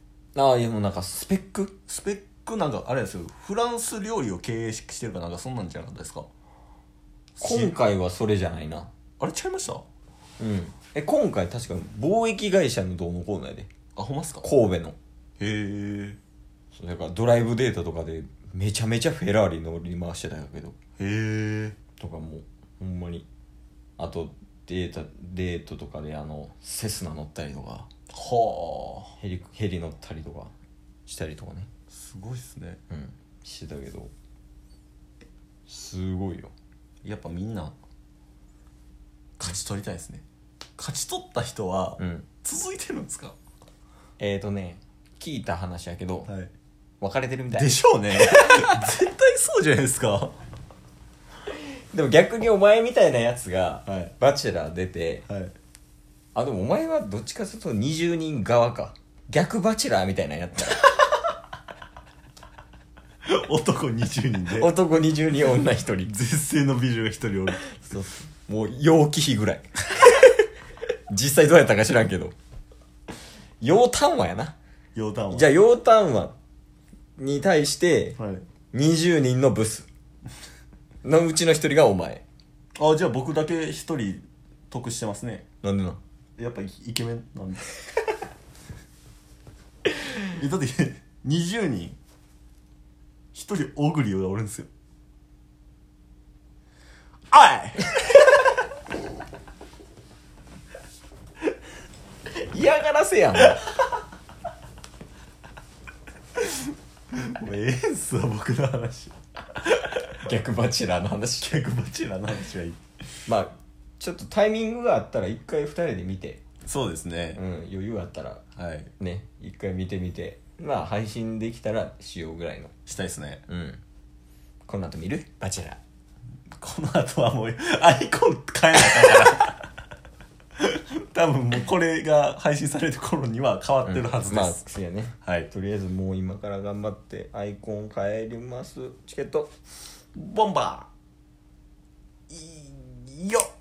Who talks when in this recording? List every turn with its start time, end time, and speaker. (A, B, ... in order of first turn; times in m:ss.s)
0:00.4-0:01.8 A
0:01.9-0:06.3 B
0:07.4-0:07.8 B
0:07.4-0:08.9 A
0:09.2-0:09.8 B
0:10.4-0:13.7 A
0:14.0-0:14.5 B
0:14.4-0:15.0 A
0:15.4-0:16.2 B
0:16.7-0:20.8 A
0:21.0-0:21.8 B
0:22.0-0:23.3 A
0:24.0-0:27.9 A
0:28.1-0:29.2 B
0:29.2-0:30.5 A
0:31.1-0:31.7 A
0:31.9-0:32.8 B
0:32.9-0:34.1 A
0:35.7-0:36.5 A
0:37.0-0:37.8 B
0:39.4-0:40.2 B
0:40.8-0:43.4 B
0:42.0-0:42.2 A
0:44.2-0:46.3 A
0:46.2-0:46.5 B
0:47.0-0:48.8 A
0:47.5-0:50.4 B
0:51.9-0:55.2 A
0:53.9-0:54.1 B
0:55.3-0:55.5 B
0:56.4-1:00.9 A
1:03.2-1:04.7 B
1:04.5-1:06.1 A
1:06.0-1:07.6 B
1:07.7-1:10.4 A
1:11.1-1:12.3 A
1:13.6-1:14.6 A
1:15.0-1:15.5 B
1:15.3-1:16.4 A
1:17.2-1:18.2 A
1:18.2-1:18.4 B
1:18.7-1:19.9 A
1:21.0-1:22.2 A
1:22.8-1:25.4 B
1:25.6-1:26.0 A
1:26.4-1:27.8 B
1:30.3-1:32.0 B
1:33.3-1:34.7 B
1:37.3-1:38.1 B
1:42.4-1:43.6 A
1:43.4-1:43.6 B
1:47.1-1:49.2 B
1:50.1-1:51.6 A
1:51.4-1:52.8 B
1:53.3-1:56.4 A
1:56.6-1:57.4 B
1:57.4-1:58.4 A
1:58.6-1:58.9 B
1:59.0-2:02.7 A
2:02.9-2:03.4 B
2:03.5-2:03.8 A
2:04.6-2:05.8 A
2:06.6-2:09.6 B
2:10.6-2:14.6 B
2:13.8-2:19.5 A
2:15.2-2:15.5 B
2:20.1-2:20.9 B
2:22.3-2:23.5 B